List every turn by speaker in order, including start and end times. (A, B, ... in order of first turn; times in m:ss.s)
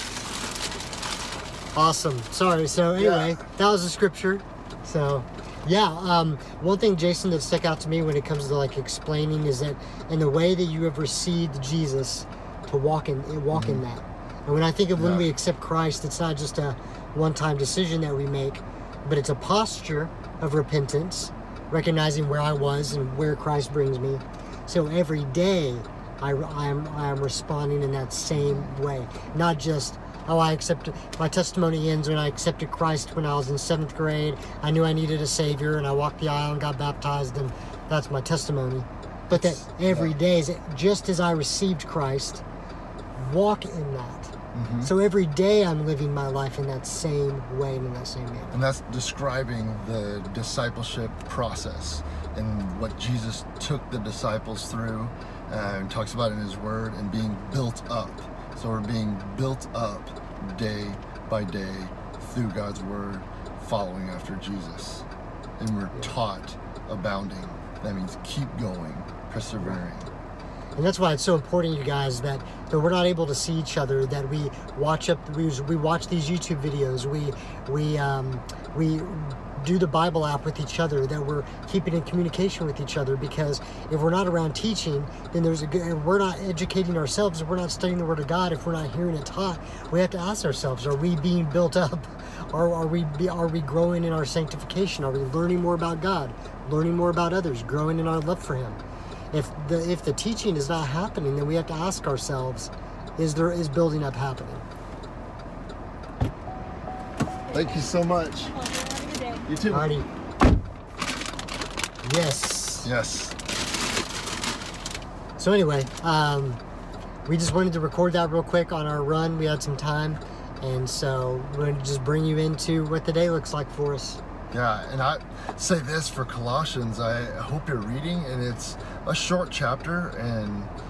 0:01.8-0:42.4 A
0:03.0-0:03.4 B
0:13.5-0:13.8 B
0:15.0-0:15.3 B
0:39.3-0:40.2 B
0:43.2-0:48.6 A
0:44.5-0:44.9 B
0:48.5-1:05.1 B
1:05.6-1:10.1 B
1:10.8-1:44.6 A
1:47.5-1:48.6 B
1:47.5-1:49.5 C
1:49.5-1:49.9 B
1:49.7-1:50.1 A
1:52.0-1:52.9 A
1:52.8-1:53.4 B
1:55.4-1:56.6 A
1:57.3-2:04.2 A
2:04.5-2:10.7 B